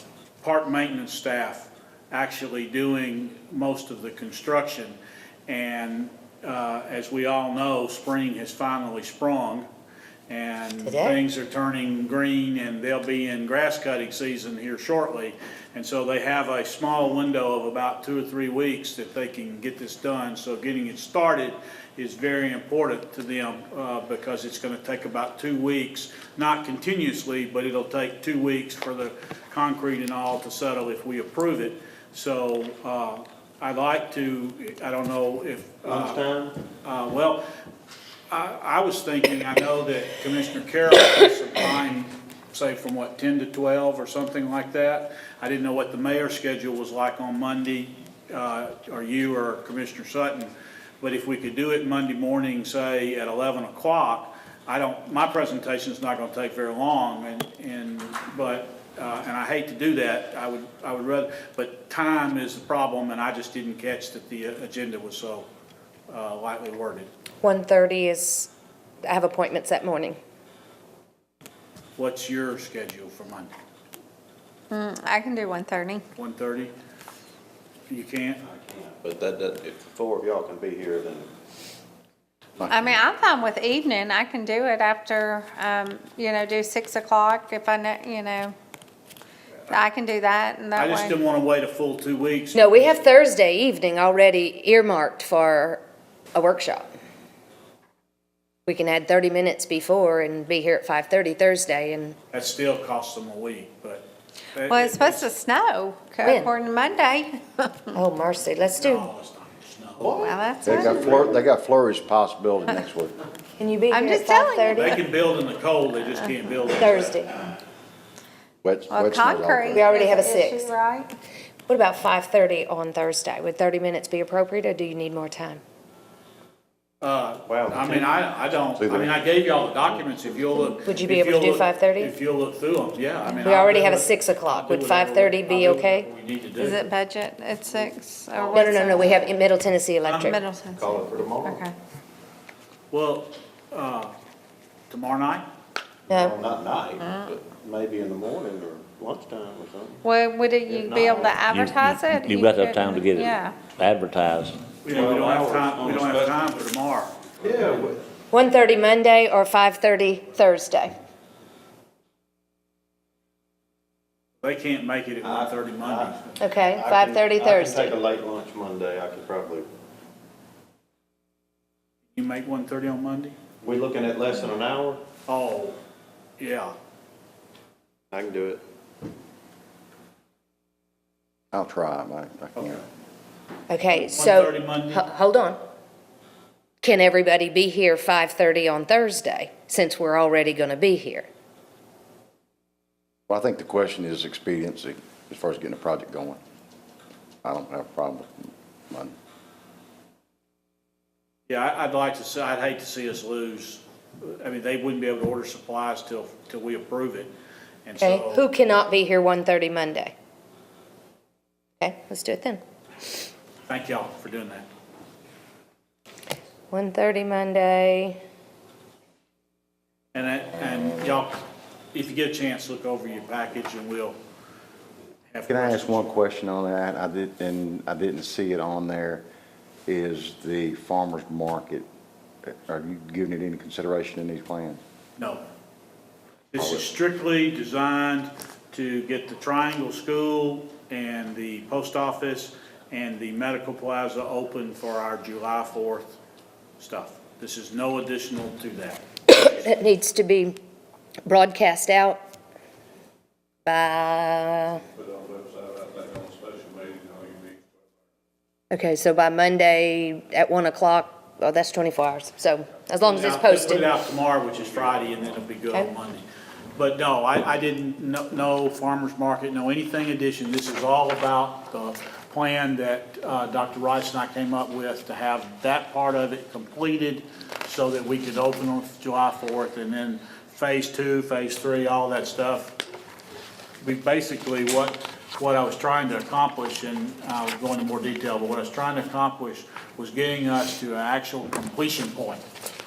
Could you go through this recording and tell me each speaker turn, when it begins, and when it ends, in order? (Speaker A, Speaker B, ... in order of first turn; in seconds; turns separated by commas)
Speaker A: 0.4-9.7, Speaker A: 10.3-36.2, Speaker B: 10.9-11.2, Speaker C: 35.9-36.6, Speaker A: 36.8-37.4, Speaker A: 38.3-65.5, Speaker A: 66.1-67.1, Speaker B: 67.4-68.5, Speaker B: 69.0-70.2, Speaker A: 72.0-73.5, Speaker D: 74.7-76.0, Speaker A: 76.2-76.7, Speaker A: 77.9-78.4, Speaker C: 78.5-81.3, Speaker E: 82.6-83.0, Speaker D: 82.7-88.5, Speaker D: 89.7-91.1, Speaker A: 90.8-93.0, Speaker B: 92.5-95.8, Speaker B: 96.3-96.8, Speaker B: 98.7-102.2, Speaker A: 102.3-105.3, Speaker D: 104.7-107.9, Speaker B: 106.2-106.5, Speaker B: 107.9-109.1, Speaker A: 108.8-110.2, Speaker C: 110.0-111.4, Speaker D: 110.1-111.1, Speaker E: 110.6-113.2, Speaker B: 113.6-115.0, Speaker D: 113.9-115.0, Speaker A: 114.7-117.2, Speaker B: 116.8-117.3, Speaker E: 118.6-119.9, Speaker D: 118.9-121.1, Speaker B: 119.7-120.7, Speaker B: 121.7-125.6, Speaker A: 127.0-136.9, Speaker C: 127.5-128.2, Speaker B: 130.7-132.1, Speaker B: 133.4-136.1, Speaker D: 136.6-139.3, Speaker B: 138.5-140.4, Speaker A: 140.1-140.3, Speaker D: 140.2-141.8, Speaker C: 140.8-141.7, Speaker A: 142.9-144.2, Speaker A: 144.9-145.5, Speaker B: 146.1-146.4, Speaker C: 146.1-150.0, Speaker D: 147.0-147.3, Speaker D: 150.0-153.6, Speaker C: 150.7-151.5, Speaker F: 151.5-154.8, Speaker A: 154.8-157.2, Speaker C: 154.8-156.3, Speaker C: 157.4-158.1, Speaker B: 158.3-160.9, Speaker A: 164.4-166.3, Speaker C: 165.2-169.7, Speaker B: 166.4-168.0, Speaker A: 172.1-173.4, Speaker C: 173.6-175.0, Speaker A: 175.3-175.8, Speaker A: 176.4-176.8, Speaker C: 178.1-178.6, Speaker E: 181.5-182.8, Speaker A: 182.6-182.8, Speaker B: 183.7-185.6, Speaker A: 183.9-185.0, Speaker B: 186.8-191.3, Speaker E: 193.3-196.4, Speaker E: 197.4-199.2, Speaker A: 201.5-207.3, Speaker A: 207.8-208.4, Speaker B: 208.0-210.1, Speaker B: 211.8-212.6, Speaker A: 213.7-214.7, Speaker B: 216.7-218.2, Speaker A: 220.1-224.2, Speaker A: 225.3-226.2, Speaker E: 225.5-229.2, Speaker E: 229.9-231.9, Speaker E: 232.5-234.8, Speaker A: 235.2-235.4, Speaker A: 236.5-246.2, Speaker E: 236.6-236.8, Speaker A: 246.8-249.0, Speaker B: 249.3-250.6, Speaker B: 251.3-252.2, Speaker B: 253.7-254.8, Speaker G: 255.3-257.4, Speaker B: 258.7-263.9, Speaker A: 263.1-282.8, Speaker A: 283.8-292.4